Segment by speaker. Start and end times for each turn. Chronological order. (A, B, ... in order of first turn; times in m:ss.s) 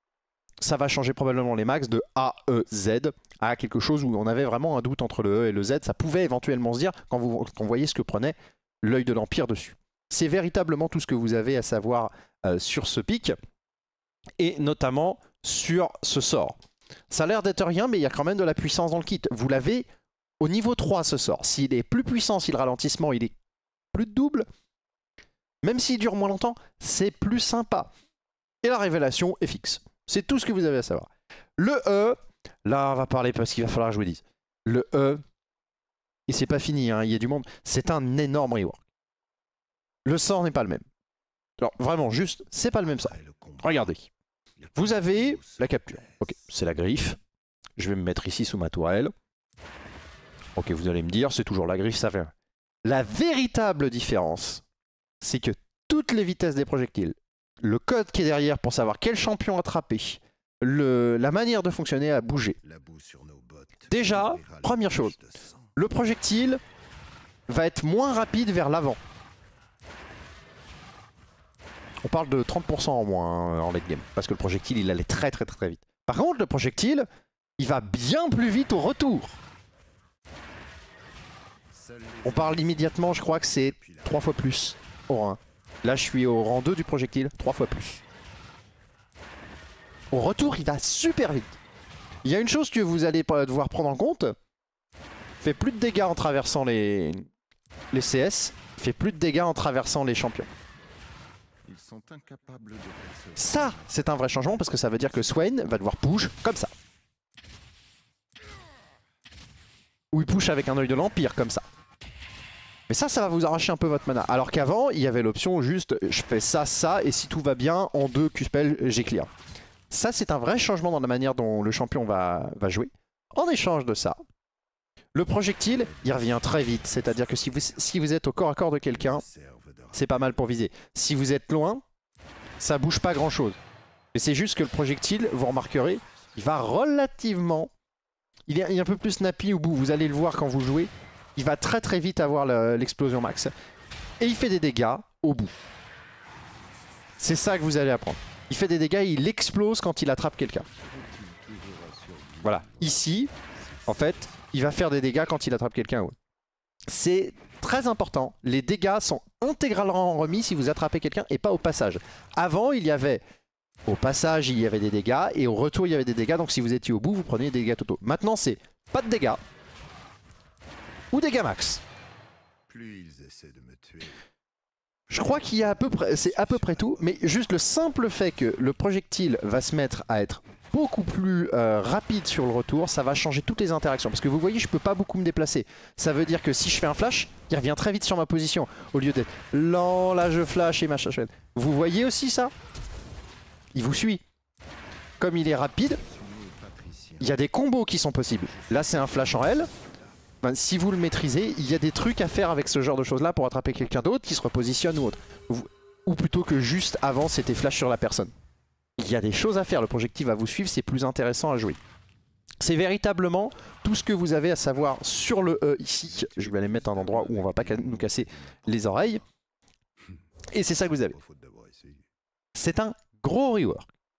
0:00.6-0:13.4 A
0:14.4-0:16.6 A
0:17.1-0:19.9 A
0:20.4-0:23.3 A
0:23.9-0:24.5 A
0:25.6-0:27.9 A
0:28.6-0:35.2 A
0:36.3-0:38.8 A
0:40.1-0:40.8 A
0:41.6-0:44.1 A
0:42.8-0:43.9 B
0:44.6-0:46.3 B
0:44.8-0:47.2 A
0:47.8-0:49.1 A
0:50.6-0:52.3 A
0:52.8-0:54.6 A
0:55.2-1:02.6 A
1:02.6-1:05.8 B
1:03.9-1:05.1 A
1:05.8-1:06.6 A
1:07.5-1:09.0 A
1:12.0-1:17.1 A
1:17.6-1:19.4 A
1:21.7-1:24.4 B
1:22.2-1:28.0 A
1:30.1-1:31.6 A
1:32.2-1:34.4 A
1:35.4-1:37.3 A
1:37.9-1:40.5 A
1:41.6-1:45.6 B
1:43.4-1:46.7 A
1:50.1-1:51.6 A
1:52.9-1:59.3 A
1:59.9-2:04.2 A
2:05.2-2:09.2 A
2:05.7-2:07.9 B
2:08.9-2:10.5 B
2:09.9-2:11.8 A
2:12.6-2:13.6 A
2:14.1-2:17.7 A
2:18.5-2:23.5 A
2:24.2-2:25.6 A
2:27.2-2:30.7 A
2:30.7-2:34.6 B
2:32.4-2:33.3 A
2:33.9-2:36.2 A
2:36.9-2:43.2 A
2:43.9-2:49.4 A
2:51.1-2:51.8 A
2:52.7-2:54.2 B
2:55.1-2:57.8 B
2:55.1-3:12.5 A
3:13.8-3:14.2 A
3:15.2-3:16.0 A
3:16.0-3:17.4 B
3:17.2-3:19.7 A
3:18.5-3:20.1 B
3:20.4-3:28.3 A
3:29.0-3:31.8 A
3:32.6-3:39.2 A
3:36.0-3:39.3 B
3:40.5-3:41.2 A
3:41.1-3:42.1 B
3:42.6-3:43.9 A